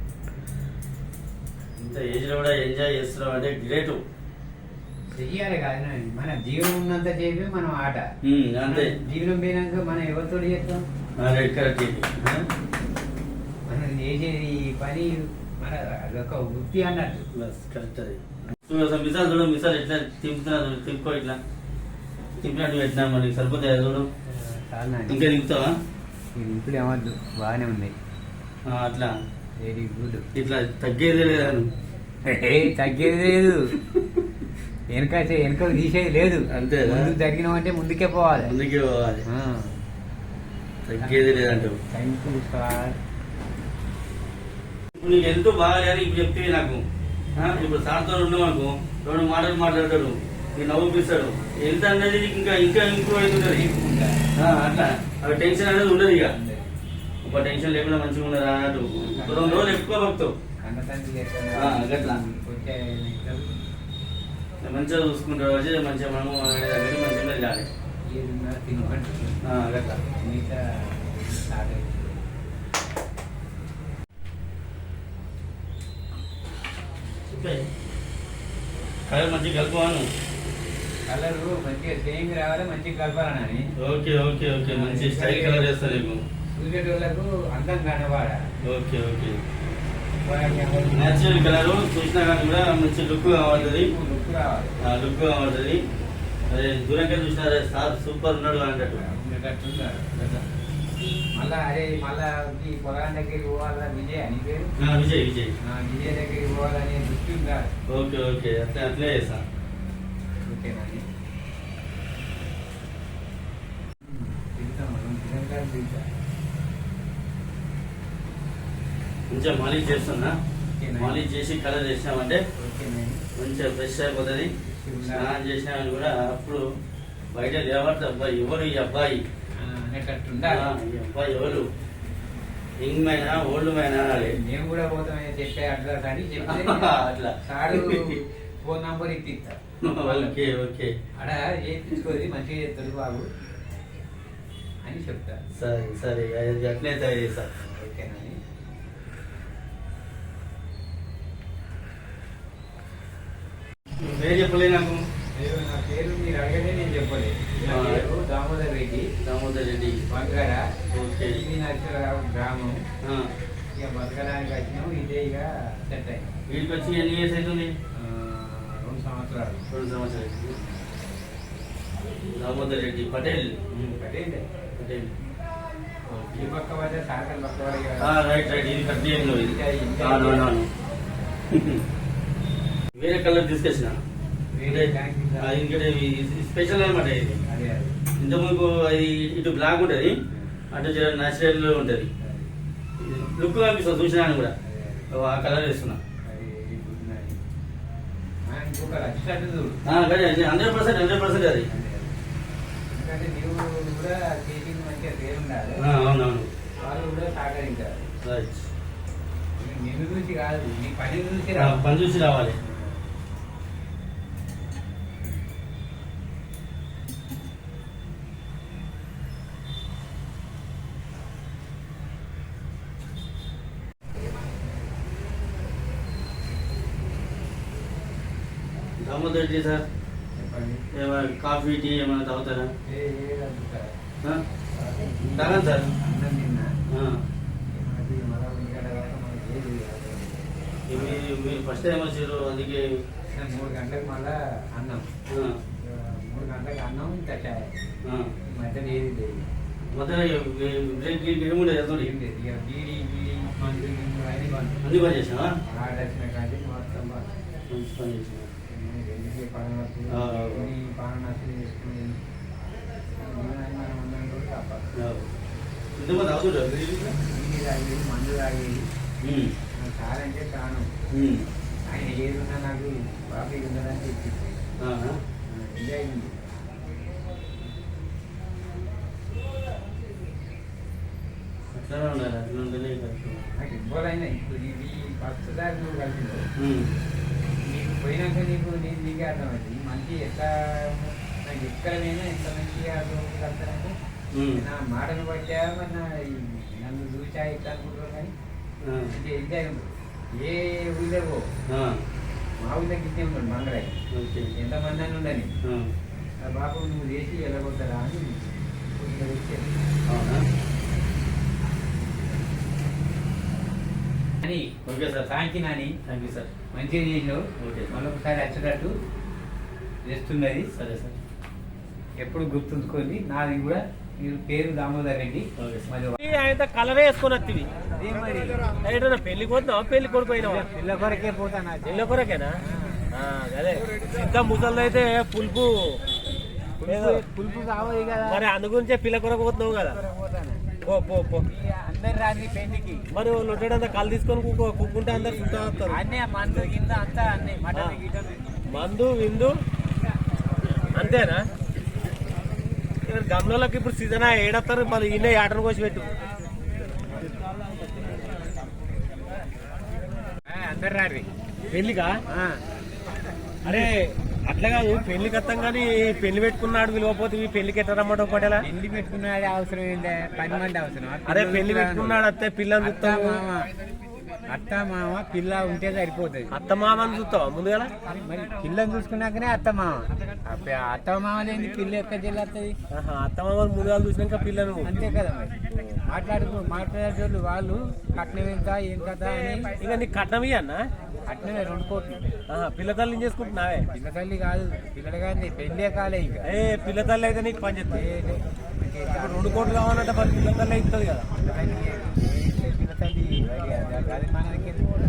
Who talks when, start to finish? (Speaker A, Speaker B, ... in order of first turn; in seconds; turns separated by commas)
Speaker A: 1.8-4.0, Speaker B: 5.1-8.1, Speaker A: 8.2-8.9, Speaker B: 8.7-10.8, Speaker A: 11.2-12.4, Speaker B: 13.7-17.3, Speaker A: 17.3-21.4, Speaker A: 22.4-24.1, Speaker B: 24.3-25.2, Speaker A: 25.1-25.8, Speaker B: 26.3-27.9, Speaker A: 28.6-29.1, Speaker B: 29.6-30.3, Speaker A: 30.3-31.7, Speaker B: 32.2-33.8, Speaker A: 33.9-34.2, Speaker B: 34.9-38.5, Speaker A: 36.5-37.1, Speaker A: 38.3-39.2, Speaker B: 39.3-39.8, Speaker A: 40.8-41.8, Speaker B: 41.0-43.0, Speaker A: 45.0-46.8, Speaker A: 47.4-53.7, Speaker B: 53.4-54.3, Speaker A: 54.4-56.3, Speaker B: 56.1-56.7, Speaker A: 57.2-60.3, Speaker B: 59.0-59.8, Speaker B: 60.6-63.5, Speaker A: 61.5-62.2, Speaker A: 64.6-67.7, Speaker B: 68.0-69.4, Speaker A: 69.4-70.0, Speaker B: 70.0-72.3, Speaker A: 77.3-77.6, Speaker A: 79.1-80.1, Speaker B: 81.1-83.7, Speaker A: 83.8-86.2, Speaker B: 84.7-85.8, Speaker B: 86.5-88.4, Speaker A: 88.6-89.4, Speaker B: 90.2-91.8, Speaker A: 90.9-93.9, Speaker B: 93.5-94.8, Speaker A: 94.8-95.8, Speaker A: 96.5-99.1, Speaker B: 98.9-100.4, Speaker A: 100.2-100.4, Speaker B: 101.3-104.7, Speaker A: 104.8-105.5, Speaker B: 105.6-107.7, Speaker A: 107.9-109.4, Speaker B: 110.4-111.0, Speaker B: 114.0-116.1, Speaker A: 119.3-120.4, Speaker B: 120.7-121.2, Speaker A: 121.0-122.4, Speaker B: 122.5-123.2, Speaker A: 123.4-124.5, Speaker B: 124.6-125.3, Speaker A: 125.0-126.6, Speaker A: 127.3-129.2, Speaker B: 129.6-130.7, Speaker A: 130.4-131.7, Speaker A: 132.8-134.4, Speaker B: 133.1-133.5, Speaker B: 134.1-140.3, Speaker A: 136.4-138.2, Speaker A: 139.8-140.9, Speaker B: 141.2-143.2, Speaker B: 144.8-145.4, Speaker A: 145.5-147.5, Speaker B: 147.6-148.4, Speaker A: 154.0-155.0, Speaker B: 155.3-159.1, Speaker A: 157.7-158.1, Speaker A: 159.2-160.0, Speaker B: 160.1-160.7, Speaker A: 160.9-161.4, Speaker B: 161.2-162.8, Speaker A: 163.0-163.3, Speaker B: 163.8-166.3, Speaker A: 166.5-167.7, Speaker B: 167.9-169.7, Speaker A: 169.7-170.5, Speaker A: 172.3-173.9, Speaker B: 173.7-174.5, Speaker A: 174.8-175.1, Speaker A: 176.1-176.5, Speaker B: 176.3-180.5, Speaker A: 178.0-180.7, Speaker A: 181.5-181.8, Speaker A: 182.9-184.0, Speaker B: 184.5-185.6, Speaker A: 184.7-187.4, Speaker B: 187.5-187.9, Speaker A: 188.2-190.2, Speaker B: 190.3-190.7, Speaker A: 190.7-192.1, Speaker B: 192.2-192.5, Speaker A: 193.0-194.5, Speaker B: 194.6-195.1, Speaker A: 195.1-196.0, Speaker B: 196.2-197.4, Speaker B: 198.5-199.8, Speaker A: 199.8-201.7, Speaker B: 201.7-202.2, Speaker B: 202.9-205.8, Speaker A: 205.8-206.5, Speaker B: 206.8-208.1, Speaker A: 208.2-208.7, Speaker B: 209.6-211.8, Speaker A: 211.5-212.6, Speaker B: 212.6-213.1, Speaker A: 229.0-229.8, Speaker B: 230.3-230.8, Speaker A: 230.9-232.7, Speaker B: 232.8-233.9, Speaker B: 234.7-236.7, Speaker A: 235.3-235.8, Speaker A: 236.9-237.2, Speaker B: 237.7-241.2, Speaker A: 240.9-243.0, Speaker B: 243.3-245.1, Speaker A: 245.3-245.6, Speaker B: 245.7-247.7, Speaker A: 248.0-248.3, Speaker B: 248.4-249.5, Speaker A: 249.9-252.1, Speaker B: 251.9-257.3, Speaker A: 254.8-255.5, Speaker A: 257.7-258.5, Speaker B: 258.6-262.2, Speaker A: 260.1-260.7, Speaker B: 263.1-264.9, Speaker A: 265.0-265.2, Speaker A: 266.0-267.1, Speaker B: 267.2-268.9, Speaker A: 269.2-269.5, Speaker B: 269.7-270.9, Speaker A: 271.1-271.4, Speaker B: 271.9-274.6, Speaker A: 274.8-275.2, Speaker B: 275.4-276.4, Speaker A: 281.7-283.4, Speaker B: 283.5-286.4, Speaker A: 286.6-286.9, Speaker B: 287.6-293.9, Speaker A: 294.3-294.6, Speaker B: 294.5-298.3, Speaker A: 298.8-299.1, Speaker B: 299.1-301.5, Speaker A: 301.7-302.0, Speaker B: 302.6-304.0, Speaker A: 304.1-304.5, Speaker B: 304.5-305.6, Speaker A: 305.6-305.9, Speaker B: 306.4-309.8, Speaker A: 310.1-310.4, Speaker B: 314.4-315.9, Speaker A: 314.9-315.3, Speaker A: 316.1-316.5, Speaker B: 316.7-318.9, Speaker A: 317.6-318.0, Speaker B: 320.0-320.7, Speaker A: 320.7-321.1, Speaker B: 322.2-326.2, Speaker A: 325.6-325.9, Speaker C: 326.2-327.7, Speaker B: 327.9-328.7, Speaker C: 328.8-330.6, Speaker B: 330.4-333.1, Speaker C: 331.9-332.6, Speaker C: 333.1-336.0, Speaker B: 334.5-335.1, Speaker B: 336.8-338.4, Speaker C: 336.8-337.2, Speaker C: 338.2-340.0, Speaker B: 339.8-340.6, Speaker C: 340.8-341.4, Speaker B: 341.4-343.1, Speaker C: 343.1-346.0, Speaker B: 345.2-348.4, Speaker C: 348.7-349.6, Speaker C: 350.9-351.4, Speaker C: 353.0-356.1, Speaker B: 360.5-361.3, Speaker C: 361.7-362.2, Speaker B: 362.3-362.6, Speaker C: 363.6-368.6, Speaker B: 368.6-372.2, Speaker C: 371.3-373.4, Speaker B: 372.8-373.7, Speaker B: 374.5-376.5, Speaker C: 376.5-377.9, Speaker B: 378.0-382.8, Speaker C: 382.9-385.0, Speaker B: 384.8-385.5, Speaker B: 386.1-389.8, Speaker C: 389.8-390.9, Speaker B: 391.3-392.2, Speaker C: 392.5-393.9, Speaker B: 393.9-396.5, Speaker C: 396.4-398.0, Speaker B: 397.9-399.8, Speaker C: 399.1-401.3, Speaker B: 401.3-404.9